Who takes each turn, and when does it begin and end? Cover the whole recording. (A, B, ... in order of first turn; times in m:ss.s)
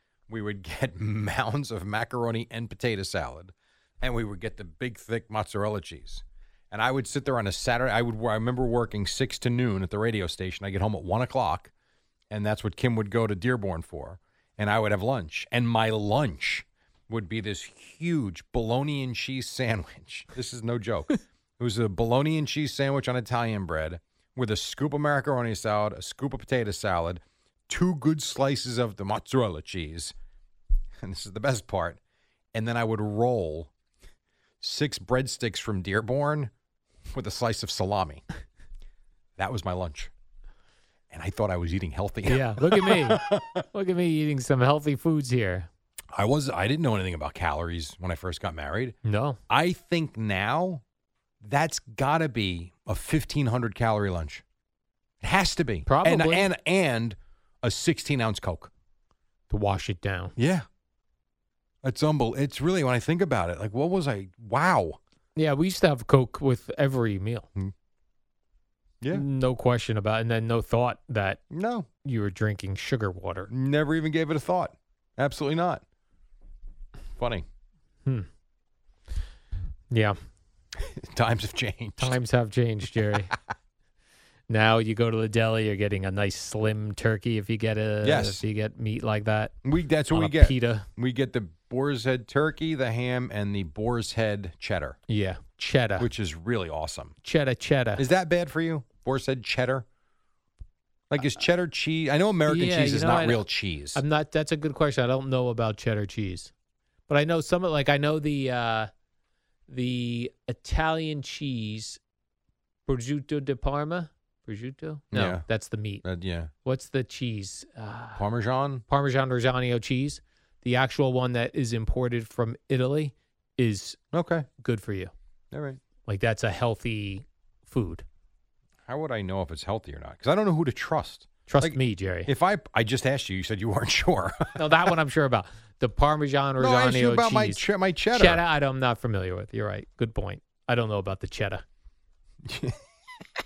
0:00.3-0:11.7 A
0:12.3-0:30.1 A
0:31.0-0:32.0 A
0:32.5-0:33.7 A
0:34.6-0:36.5 A
0:37.1-0:38.2 A
0:39.4-0:40.1 A
0:41.1-0:43.6 A
0:42.3-0:43.2 B
0:43.7-0:45.7 B
0:46.1-0:49.0 A
0:49.0-0:49.4 B
0:49.5-0:50.8 A
0:51.4-0:54.4 A
0:55.2-0:58.7 A
0:55.8-0:56.5 B
0:59.5-1:00.3 B
1:00.4-1:00.6 A
1:01.8-1:05.0 A
1:05.4-1:07.5 B
1:09.1-1:11.4 B
1:11.5-1:11.9 A
1:12.0-1:13.5 B
1:13.5-1:15.8 A
1:17.2-1:17.4 A
1:19.9-1:20.2 B
1:20.8-1:22.2 A
1:22.0-1:23.3 B
1:24.5-1:29.5 B
1:28.0-1:28.4 A
1:29.6-1:35.0 A
1:30.1-1:30.8 B
1:35.1-1:36.1 B
1:36.0-1:37.2 A
1:37.2-1:38.0 B
1:38.0-1:39.8 A
1:41.1-1:44.0 A
1:42.5-1:43.4 B
1:43.9-1:46.5 B
1:47.1-1:48.9 B
1:49.7-1:52.0 B
1:52.9-1:56.0 B
1:55.1-1:55.4 A
1:56.0-1:56.5 A
1:56.6-1:58.2 B
1:58.2-1:58.8 A
1:58.9-2:04.0 B
2:04.1-2:04.4 A
2:04.6-2:05.1 B
2:05.5-2:05.8 A
2:06.0-2:08.0 B
2:08.9-2:14.6 A
2:11.5-2:12.3 B
2:14.6-2:17.6 B
2:16.6-2:18.4 A
2:18.1-2:21.6 B
2:22.4-2:22.8 A